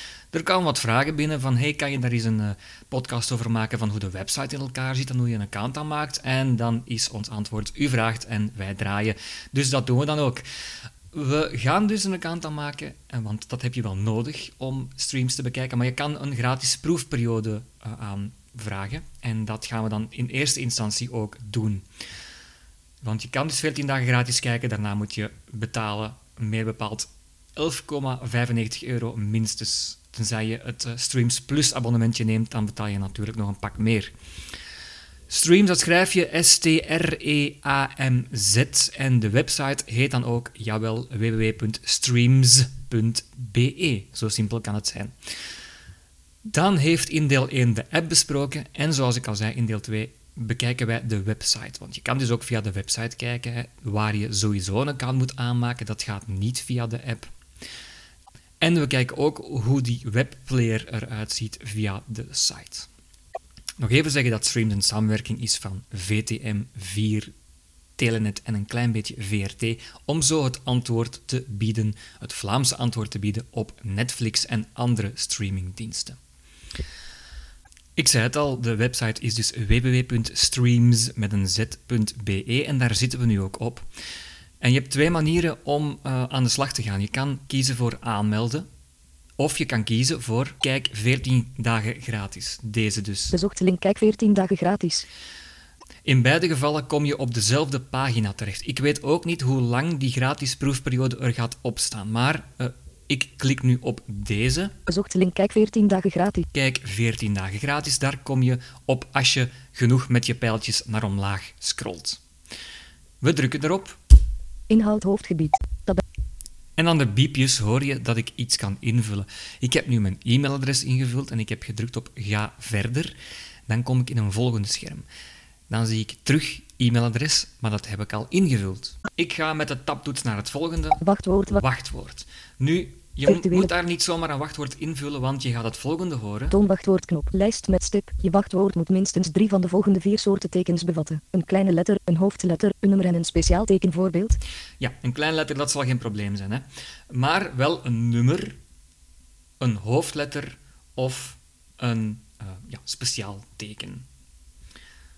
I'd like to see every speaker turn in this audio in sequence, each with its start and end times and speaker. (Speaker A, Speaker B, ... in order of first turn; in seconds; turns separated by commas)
Speaker A: 0.3-10.4, Speaker A: 11.1-21.9, Speaker A: 23.0-34.1, Speaker A: 35.3-45.1, Speaker A: 46.5-57.3, Speaker A: 58.6-62.9, Speaker A: 63.8-67.3, Speaker A: 68.0-76.2, Speaker A: 78.0-83.9, Speaker A: 84.6-88.7, Speaker A: 89.4-93.4, Speaker B: 93.3-95.1, Speaker A: 96.0-104.8, Speaker B: 104.9-106.5, Speaker A: 106.5-112.2, Speaker A: 113.2-114.0, Speaker B: 114.7-116.0, Speaker A: 116.8-123.2, Speaker A: 123.7-125.1, Speaker A: 125.7-136.6, Speaker B: 131.0-131.6, Speaker B: 133.3-133.7, Speaker B: 136.5-144.4, Speaker A: 144.8-148.6, Speaker A: 149.6-154.1